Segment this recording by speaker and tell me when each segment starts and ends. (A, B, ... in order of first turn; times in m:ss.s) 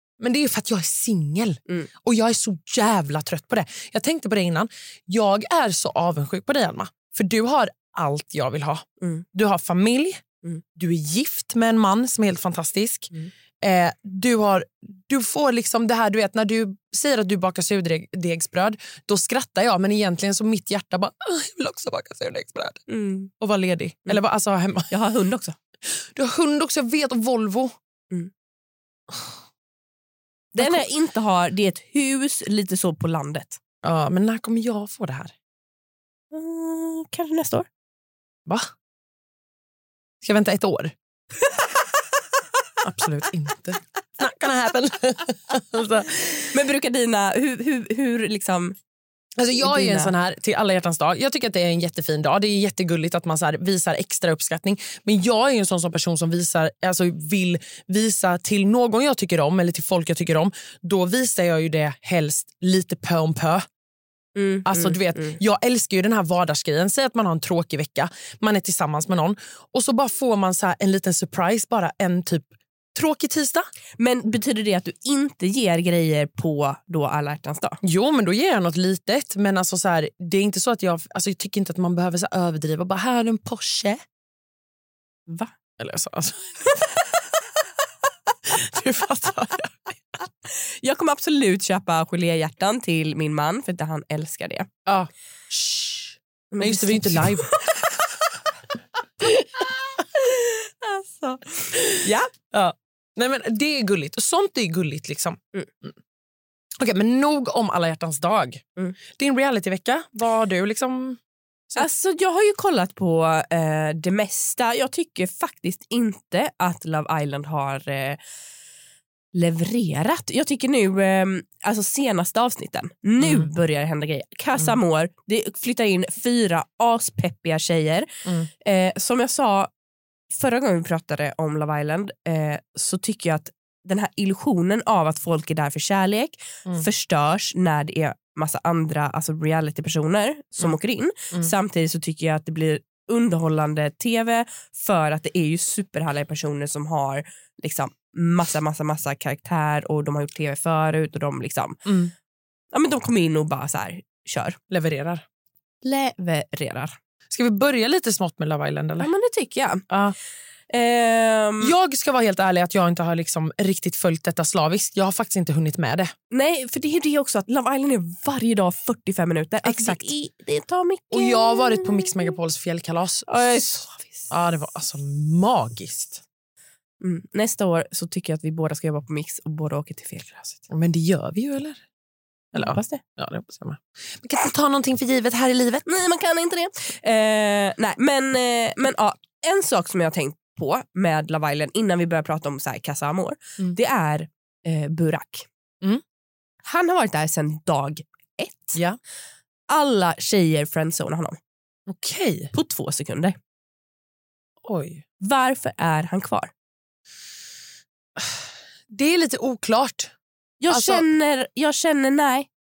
0:00.2-0:10.2 A
0:10.7-0:22.8 A
0:22.9-0:23.3 B
0:23.4-0:24.9 A
0:24.9-0:25.6 B
0:25.8-0:27.7 A
0:30.5-0:33.6 B
0:30.6-0:30.8 A
0:33.8-0:35.3 A
0:36.3-0:37.7 B
0:38.4-0:38.7 A
0:40.2-0:40.9 A
0:42.8-0:46.5 A
0:46.5-0:48.8 B
0:49.4-1:03.6 A
0:49.6-0:50.1 B
1:04.3-1:05.4 B
1:04.6-1:13.7 A
1:14.0-1:17.8 B
1:17.8-1:24.0 A
1:25.3-1:25.5 B
1:25.8-1:26.5 A
1:28.4-1:29.9 A
1:30.4-1:34.7 B
1:34.8-1:37.5 A
1:36.5-1:37.5 B
1:39.2-1:40.0 A
1:40.3-1:42.1 B
1:41.7-1:45.9 A
1:46.8-1:51.2 A
1:51.8-1:58.2 B
1:59.3-2:09.7 B
2:03.2-2:03.5 A
2:10.3-2:31.8 B
2:31.8-2:32.1 A
2:32.7-2:34.6 B
2:34.7-2:35.2 A
2:35.8-2:37.0 B
2:37.3-2:39.1 A
2:39.0-2:39.8 B
2:39.9-2:40.1 A
2:40.7-2:41.7 B
2:41.6-2:46.1 A
2:46.3-2:52.3 B
2:49.6-2:50.1 A
2:51.1-2:53.7 A
2:53.3-2:54.3 B
2:54.3-2:56.2 A
2:57.0-3:00.6 B
3:00.7-3:01.8 A
3:02.5-3:05.8 A
3:02.5-3:03.0 B
3:05.8-3:15.5 B
3:16.6-3:18.8 B
3:19.7-3:21.4 B
3:21.9-3:22.5 A
3:22.5-3:23.4 B
3:24.6-3:25.0 A
3:25.2-3:26.5 B
3:28.2-3:30.1 A
3:30.6-3:32.5 B
3:30.7-3:31.0 A